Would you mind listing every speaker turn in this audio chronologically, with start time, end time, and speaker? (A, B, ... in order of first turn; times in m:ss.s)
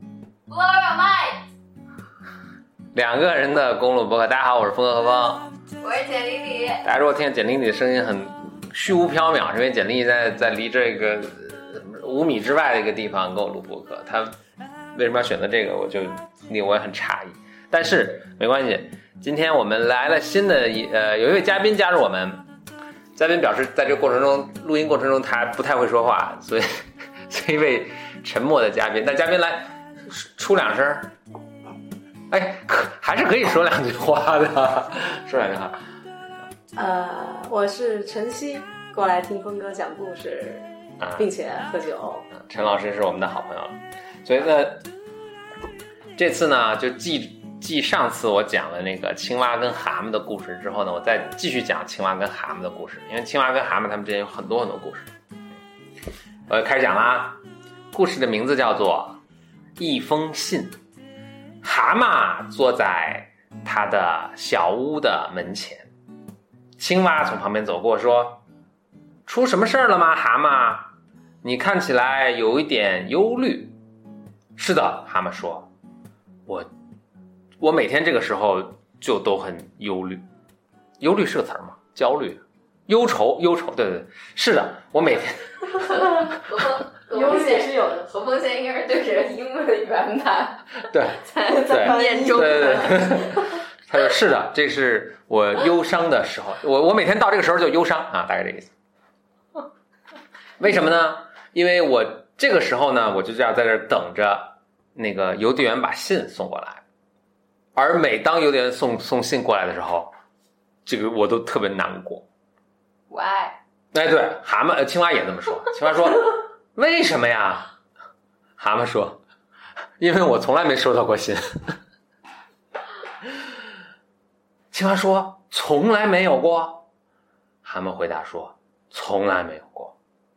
0:00.5-0:01.5 A
0:02.9-0:05.5 B
0:05.8-0:06.8 A
0:06.8-0:14.3 B
0:14.9-0:22.4 B
0:23.1-0:31.1 B
0:32.3-0:35.8 B
0:36.8-0:42.2 C
0:41.0-0:41.2 B
0:42.3-0:44.8 B
0:46.2-0:55.1 B
0:56.5-0:57.4 B
0:57.9-0:59.2 B
0:59.8-1:00.7 B
1:01.6-1:05.9 B
1:06.8-1:08.4 B
1:09.2-1:10.9 B
1:11.4-1:13.7 B
1:14.6-1:15.7 B
1:17.6-1:20.2 B
1:21.0-1:26.3 B
1:25.8-1:33.2 A
1:27.1-1:28.1 C
1:30.9-1:38.7 B
1:31.5-1:33.6 C
1:40.6-1:46.8 B
1:47.8-1:50.1 B
1:50.8-1:52.3 B
1:53.1-1:53.6 A
1:53.9-1:57.7 B
1:58.6-1:59.2 B
2:00.0-2:01.5 B
2:04.7-2:06.8 B
2:07.6-2:09.9 B